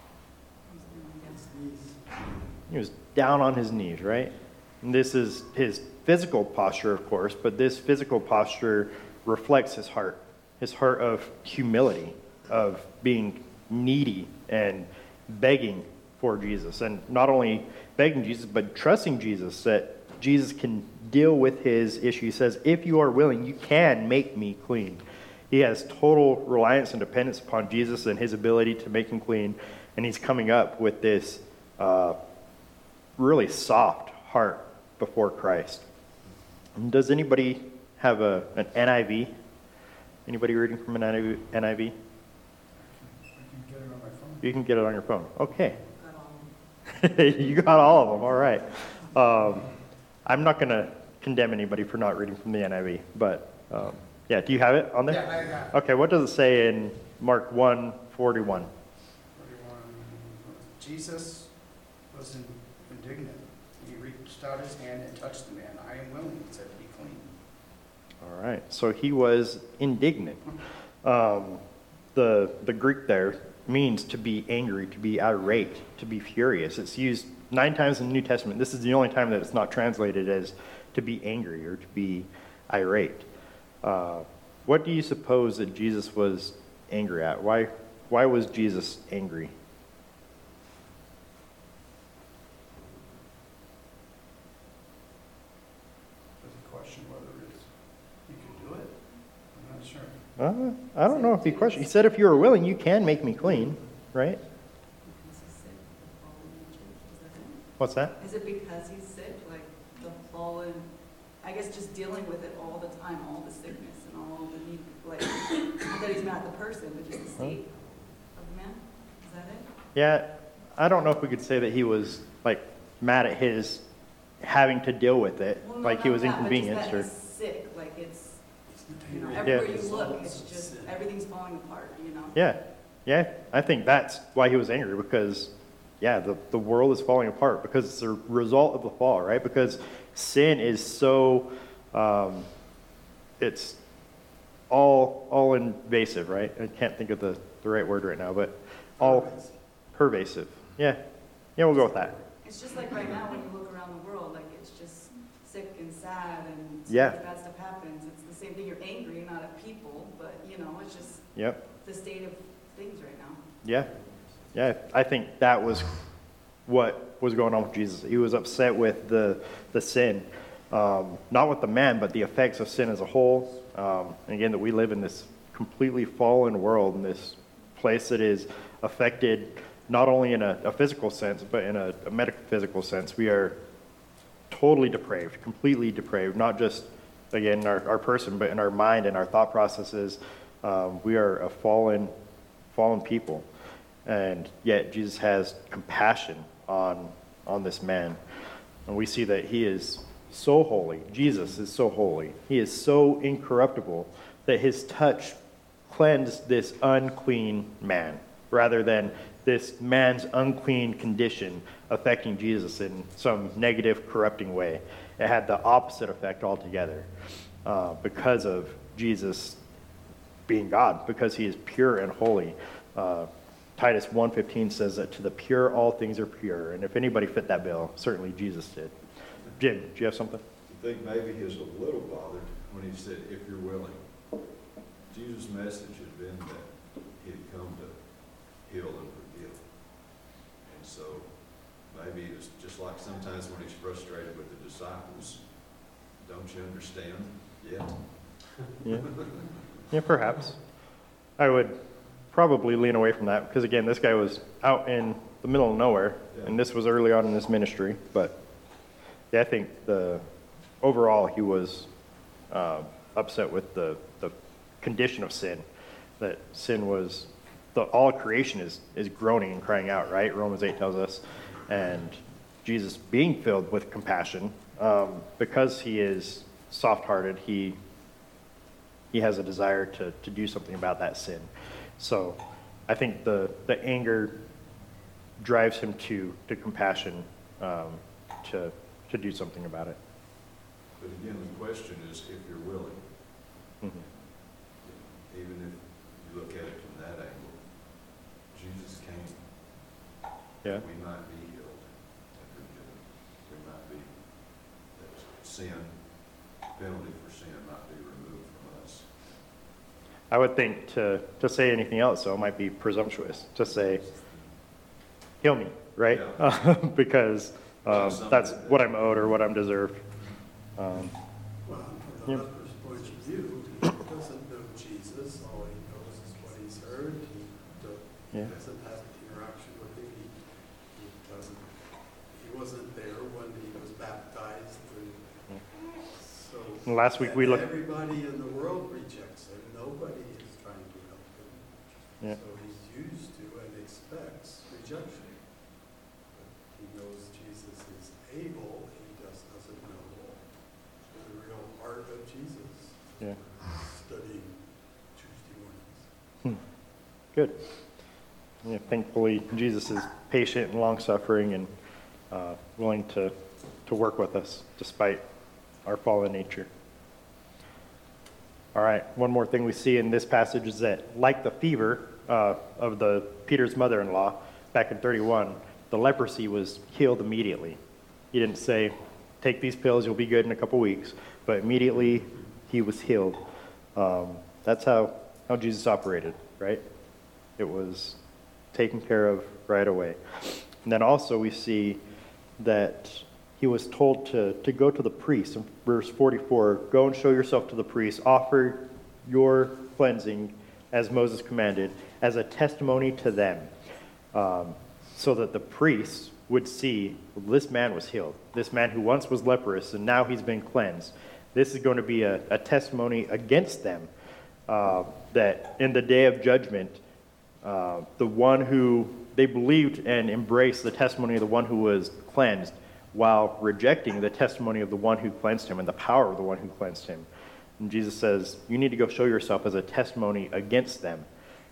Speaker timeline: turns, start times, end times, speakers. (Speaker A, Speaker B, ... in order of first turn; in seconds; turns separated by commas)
Speaker A: 0.7-1.4, Speaker B: 1.2-2.5, Speaker C: 2.7-32.2, Speaker C: 33.2-35.8, Speaker C: 36.8-39.3, Speaker C: 40.2-41.9, Speaker D: 42.8-44.5, Speaker C: 44.4-45.8, Speaker A: 46.0-46.5, Speaker C: 46.9-49.7, Speaker C: 50.2-58.7, Speaker D: 55.0-55.7, Speaker D: 59.3-67.3, Speaker C: 68.2-70.4, Speaker C: 71.0-71.6, Speaker C: 72.1-83.3, Speaker C: 83.8-89.5, Speaker D: 96.4-100.4, Speaker C: 100.4-104.4, Speaker A: 101.0-102.1, Speaker A: 105.0-117.7, Speaker C: 107.8-108.1, Speaker A: 118.3-119.7, Speaker C: 119.9-123.8, Speaker C: 124.4-127.1, Speaker A: 125.6-128.4, Speaker B: 128.7-131.0, Speaker A: 129.0-132.4, Speaker C: 132.3-142.5, Speaker C: 143.4-143.8, Speaker C: 144.7-149.3, Speaker B: 149.0-149.5, Speaker C: 149.9-151.0, Speaker C: 151.5-152.1, Speaker A: 152.0-163.4, Speaker C: 156.9-157.2, Speaker C: 163.6-163.9, Speaker C: 164.5-165.9, Speaker C: 166.7-183.6, Speaker C: 184.5-192.1, Speaker C: 192.7-193.4, Speaker C: 194.1-198.2, Speaker C: 198.9-205.4, Speaker C: 205.9-217.1, Speaker C: 217.6-219.6, Speaker C: 220.5-228.9, Speaker C: 229.6-230.4, Speaker E: 230.7-234.1, Speaker E: 235.1-240.0, Speaker E: 240.6-245.5, Speaker E: 246.2-248.4, Speaker C: 248.8-249.1, Speaker E: 248.9-249.4, Speaker C: 249.9-250.6, Speaker C: 251.4-251.8, Speaker C: 252.3-258.4, Speaker E: 256.3-256.6, Speaker C: 259.3-260.2, Speaker C: 260.8-261.9, Speaker C: 262.5-265.6, Speaker C: 266.2-277.8, Speaker C: 279.1-284.4, Speaker C: 285.4-290.0, Speaker E: 291.0-293.1, Speaker C: 293.8-294.1, Speaker E: 294.8-297.9, Speaker E: 298.5-299.4, Speaker E: 300.6-306.0, Speaker E: 306.7-309.2, Speaker C: 310.3-314.0, Speaker E: 313.6-314.5, Speaker C: 315.4-320.0, Speaker E: 316.1-316.6, Speaker E: 317.8-319.4, Speaker C: 320.8-321.1, Speaker B: 321.6-335.5, Speaker B: 336.1-345.4, Speaker C: 336.8-337.7, Speaker B: 346.3-350.5, Speaker B: 351.1-356.1, Speaker C: 358.6-361.7, Speaker C: 362.3-363.3, Speaker C: 363.9-365.2, Speaker C: 365.9-366.7, Speaker C: 368.7-377.8, Speaker C: 378.3-383.4, Speaker C: 383.9-386.8, Speaker C: 387.6-388.2, Speaker C: 388.7-390.2, Speaker C: 390.8-392.0, Speaker C: 392.6-403.7, Speaker C: 404.3-414.1, Speaker C: 414.7-417.0, Speaker C: 417.6-427.3, Speaker C: 427.8-431.3